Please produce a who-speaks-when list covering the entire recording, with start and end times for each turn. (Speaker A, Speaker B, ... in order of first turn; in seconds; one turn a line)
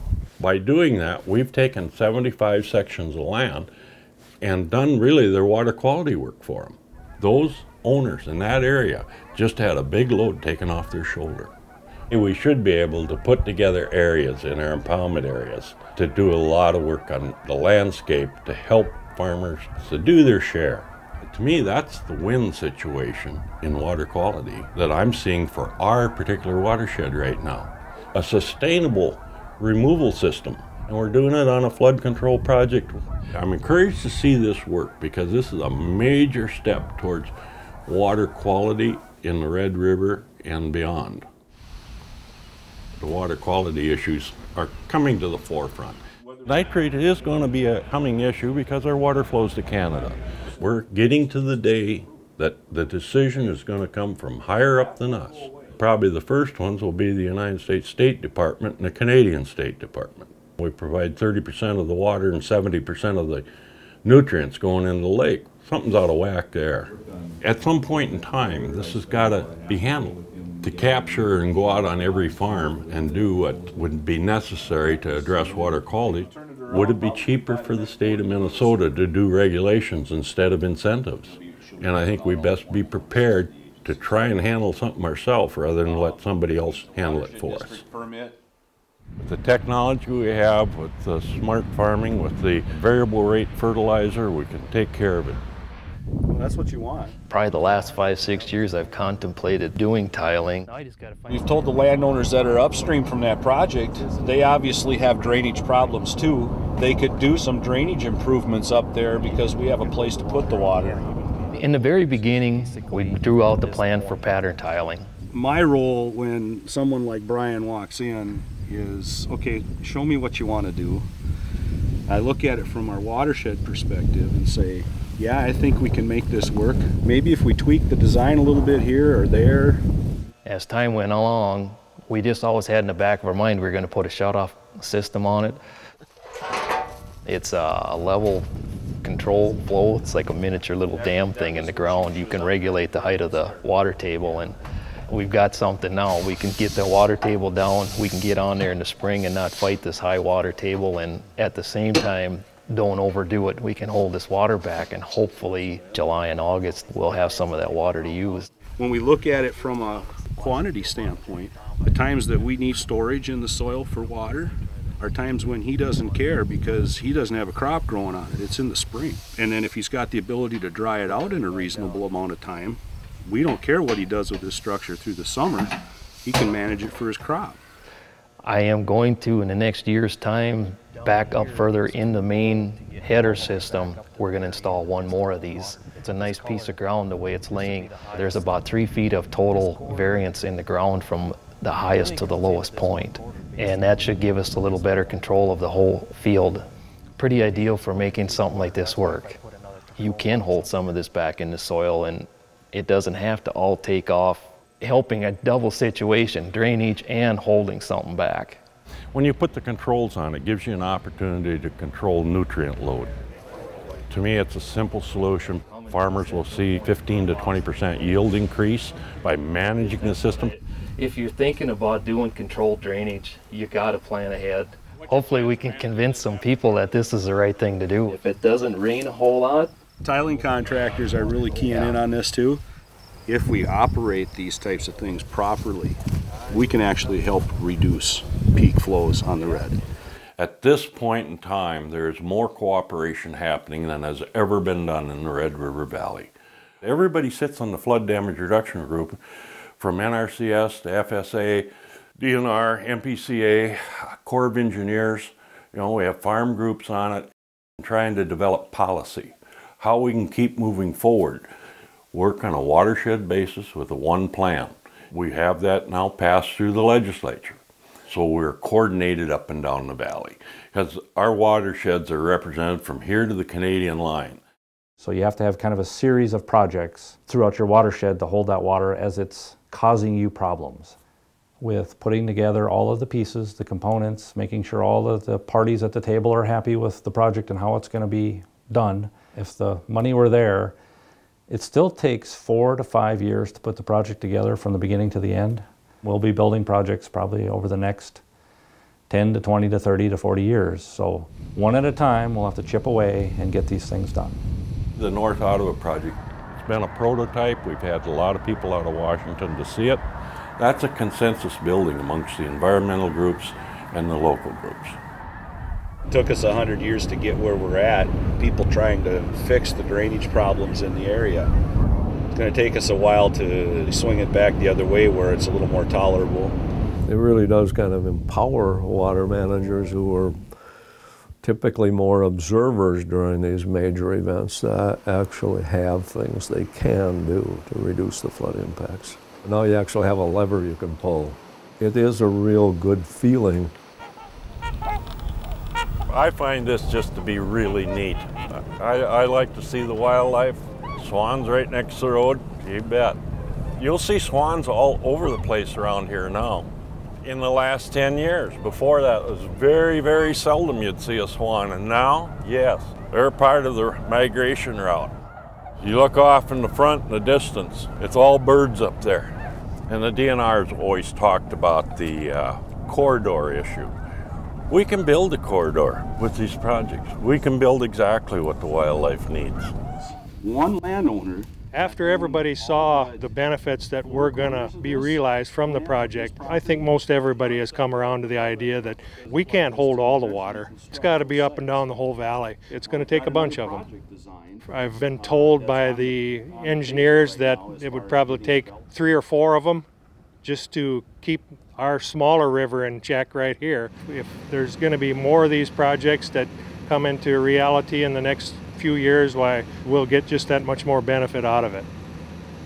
Speaker A: 0.4-3.7
Speaker A: 4.4-11.5
Speaker A: 12.1-37.3
Speaker A: 37.9-41.3
Speaker A: 43.0-63.5
Speaker A: 64.0-87.8
Speaker B: 70.5-71.7
Speaker B: 72.5-73.2
Speaker C: 76.2-78.8
Speaker B: 76.2-78.6
Speaker B: 81.4-83.0
Speaker C: 81.5-84.4
Speaker B: 85.8-88.4
Speaker C: 86.7-87.8
Speaker A: 89.2-95.4
Speaker B: 96.3-97.2
Speaker D: 97.3-101.3
Speaker B: 101.3-111.1
Speaker C: 109.9-110.9
Speaker D: 111.3-115.1
Speaker C: 115.3-121.1
Speaker C: 122.1-129.8
Speaker B: 127.0-128.9
Speaker D: 130.4-135.6
Speaker D: 137.2-138.5
Speaker D: 139.0-144.6
Speaker B: 140.9-143.6
Speaker D: 145.1-158.6
Speaker C: 158.8-175.7
Speaker B: 163.5-163.9
Speaker C: 176.2-177.6
Speaker D: 178.4-196.6
Speaker D: 197.2-208.6
Speaker A: 209.1-213.1
Speaker A: 214.1-220.6
Speaker D: 215.7-218.1
Speaker D: 219.8-229.7
Speaker C: 230.0-232.6
Speaker B: 230.1-232.0
Speaker D: 231.5-231.9
Speaker C: 233.3-236.0
Speaker C: 236.5-239.8
Speaker A: 240.4-249.2
Speaker A: 249.8-257.3
Speaker A: 257.8-261.5
Speaker A: 262.1-274.4
Speaker E: 275.0-281.0
Speaker E: 281.6-290.7
Speaker E: 291.5-298.2
Speaker E: 299.1-304.4
Speaker A: 304.9-310.0
Speaker A: 310.6-315.0
Speaker B: 316.1-321.5
Speaker B: 322.3-326.5
Speaker F: 327.1-330.4
Speaker F: 331.4-343.7
Speaker A: 346.1-353.2
Speaker A: 353.8-356.7
Speaker A: 357.2-365.1
Speaker A: 365.8-369.4
Speaker A: 369.9-373.9
Speaker A: 374.7-379.7
Speaker C: 380.4-383.2
Speaker G: 381.7-393.9
Speaker B: 381.8-382.8
Speaker C: 384.0-388.7
Speaker B: 387.4-391.8
Speaker C: 389.4-391.8
Speaker B: 392.9-394.6
Speaker C: 393.1-394.5
Speaker G: 394.7-399.9
Speaker B: 395.2-398.8
Speaker C: 395.3-396.1
Speaker C: 396.6-398.8
Speaker G: 400.4-411.9